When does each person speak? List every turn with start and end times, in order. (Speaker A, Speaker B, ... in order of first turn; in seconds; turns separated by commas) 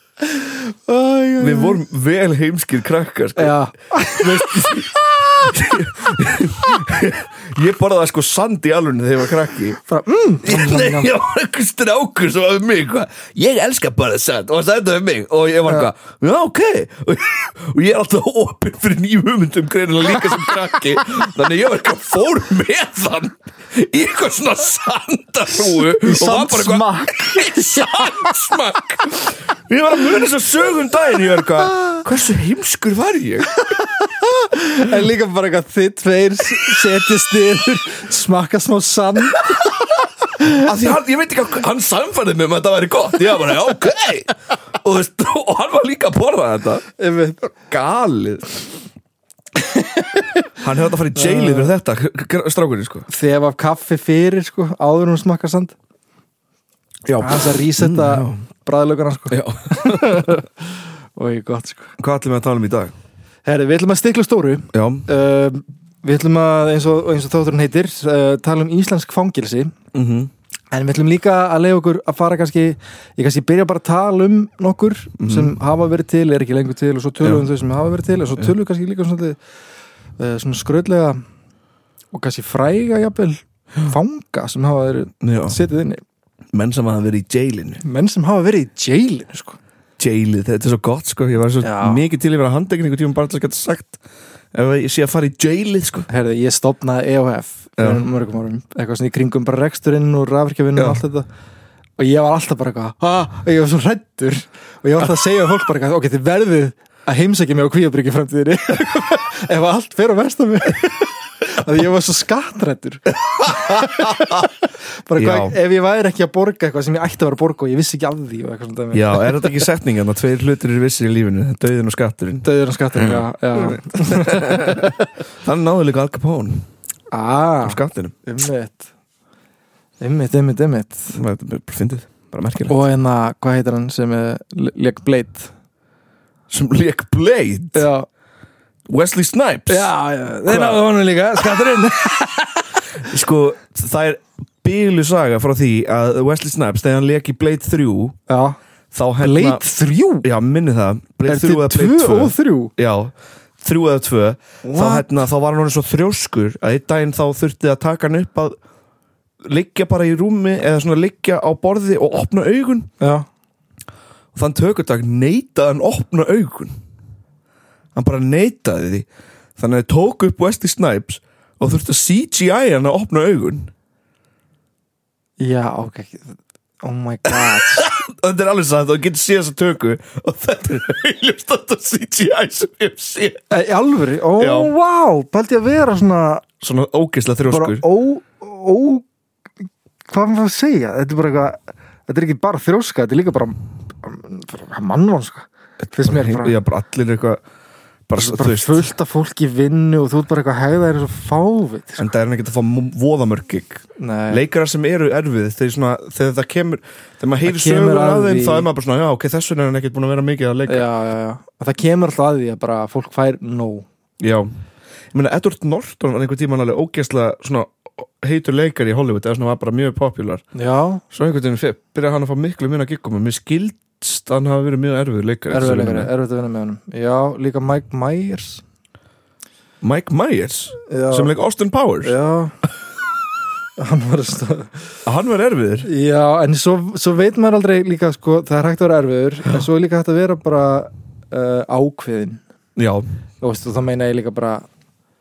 Speaker A: 0.2-1.8, Speaker B: 1.4-9.8, Speaker A: 3.4-5.5, Speaker A: 9.9-11.2, Speaker B: 10.4-33.6, Speaker A: 25.7-28.4, Speaker A: 31.6-32.0, Speaker A: 33.6-40.7, Speaker B: 40.4-46.8, Speaker A: 47.0-47.5, Speaker B: 47.7-48.6, Speaker A: 49.5-50.5, Speaker B: 50.6-53.1, Speaker A: 51.1-51.7, Speaker A: 53.1-55.7, Speaker B: 57.1-58.4, Speaker A: 57.2-62.0, Speaker B: 59.3-60.4, Speaker B: 62.0-62.9, Speaker A: 63.5-69.7, Speaker B: 64.7-65.1, Speaker B: 69.9-70.3, Speaker A: 70.7-79.4, Speaker B: 75.2-75.5, Speaker B: 77.2-77.5, Speaker A: 80.2-81.2, Speaker A: 82.1-86.0, Speaker B: 85.2-85.6, Speaker B: 86.5-87.8, Speaker A: 87.8-89.6, Speaker B: 90.0-94.0, Speaker A: 91.6-92.0, Speaker B: 94.5-96.1, Speaker A: 96.1-101.3, Speaker B: 97.8-98.0, Speaker A: 102.0-119.6, Speaker B: 115.2-115.5, Speaker B: 118.9-126.7, Speaker A: 122.4-125.1, Speaker A: 127.1-128.9, Speaker B: 127.6-128.1, Speaker A: 130.0-131.2, Speaker B: 131.1-132.7, Speaker A: 132.7-135.5, Speaker B: 136.5-137.9, Speaker A: 137.7-138.1, Speaker B: 138.9-139.9, Speaker A: 139.7-142.7, Speaker B: 140.5-140.8, Speaker B: 143.0-148.2, Speaker A: 148.3-148.6, Speaker B: 148.9-149.6, Speaker A: 149.2-150.2, Speaker B: 150.2-158.6, Speaker A: 151.3-152.7, Speaker A: 154.6-155.1, Speaker B: 159.4-162.9, Speaker A: 163.0-163.2, Speaker B: 164.3-166.7, Speaker B: 167.9-169.1, Speaker B: 169.6-173.7, Speaker A: 175.4-177.9, Speaker B: 177.3-183.4, Speaker A: 183.5-186.5, Speaker B: 184.4-184.7, Speaker B: 186.6-187.8, Speaker A: 187.5-189.1, Speaker A: 190.1-196.6, Speaker B: 196.0-197.4, Speaker B: 198.1-198.8, Speaker A: 198.2-202.1, Speaker B: 202.0-210.8, Speaker A: 204.0-204.4, Speaker A: 207.4-208.7, Speaker A: 210.7-213.9, Speaker B: 214.2-214.5, Speaker B: 215.1-220.4, Speaker A: 220.5-221.0, Speaker B: 221.1-226.1, Speaker A: 225.5-228.6, Speaker B: 229.8-232.1, Speaker A: 230.9-231.3, Speaker A: 232.0-232.6, Speaker A: 233.8-234.8, Speaker B: 235.1-235.9, Speaker A: 235.8-242.4, Speaker B: 242.8-243.1, Speaker A: 243.4-244.6